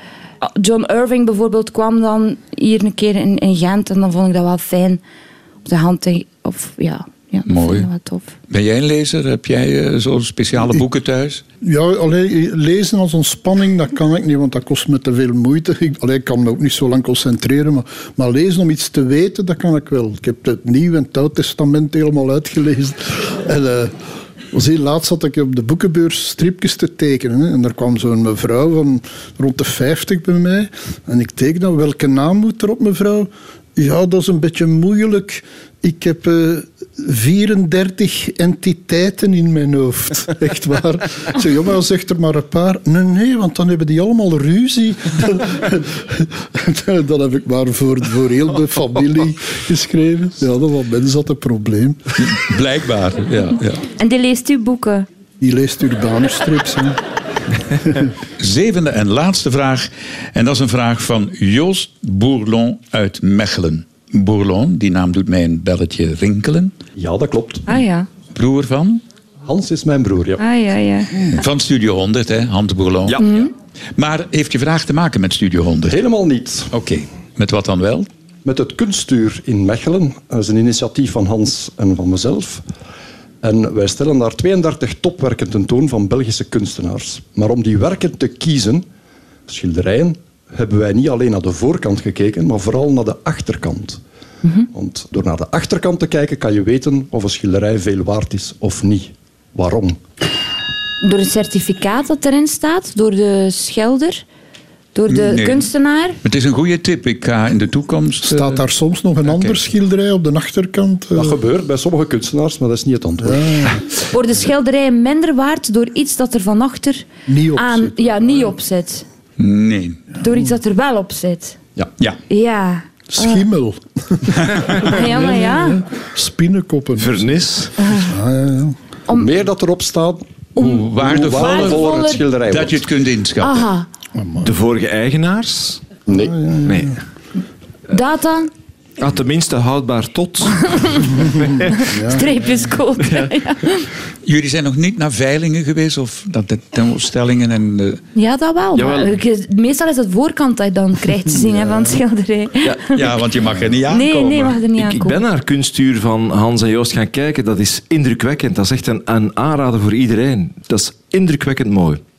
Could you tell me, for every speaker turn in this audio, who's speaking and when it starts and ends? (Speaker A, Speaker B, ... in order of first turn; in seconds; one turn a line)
Speaker A: 0.4-5.0
Speaker A: 5.6-8.3
Speaker B: 7.5-7.9
Speaker B: 8.5-11.4
Speaker C: 11.6-23.9
Speaker C: 24.5-52.2
Speaker B: 52.2-53.8
Speaker A: 54.0-55.1
Speaker C: 55.4-57.0
Speaker B: 58.4-66.7
Speaker D: 67.0-67.7
Speaker A: 67.7-68.1
Speaker B: 68.3-69.0
Speaker D: 69.4-70.4
Speaker A: 70.4-71.3
Speaker B: 71.3-76.0
Speaker A: 73.2-73.5
Speaker D: 75.8-76.7
Speaker B: 76.7-78.1
Speaker D: 78.4-82.6
Speaker D: 83.4-88.8
Speaker D: 89.5-94.0
Speaker D: 94.7-100.0
Speaker A: 101.0-104.2
Speaker A: 104.9-106.2
Speaker B: 105.1-105.7
Speaker B: 106.2-108.6
Speaker C: 108.2-111.4
Speaker D: 111.1-113.7
Speaker C: 113.2-113.8
Speaker A: 114.1-119.0
Speaker C: 117.3-118.3
Speaker B: 119.4-120.0
Speaker A: 120.2-121.6
Speaker A: 122.3-123.4
Speaker C: 123.1-127.2
Speaker A: 124.8-125.8
Speaker E: 127.0-127.7
Speaker A: 127.8-128.1
Speaker C: 128.1-128.7
Speaker D: 129.1-132.8
Speaker B: 130.6-133.6
Speaker A: 131.3-132.2
Speaker A: 133.4-133.9
Speaker C: 134.1-134.5
Speaker E: 134.4-135.8
Speaker D: 136.1-136.4
Speaker C: 136.2-136.9
Speaker E: 136.6-136.9
Speaker A: 137.9-138.5
Speaker E: 139.0-141.7
Speaker A: 140.7-141.1
Speaker A: 141.7-143.8
Speaker C: 141.9-142.4
Speaker B: 144.2-148.0
Speaker A: 148.1-153.0
Speaker E: 148.7-149.1
Speaker C: 151.4-152.0
Speaker E: 152.6-153.0
Speaker B: 152.9-154.6
Speaker A: 153.9-155.2
Speaker E: 154.7-162.0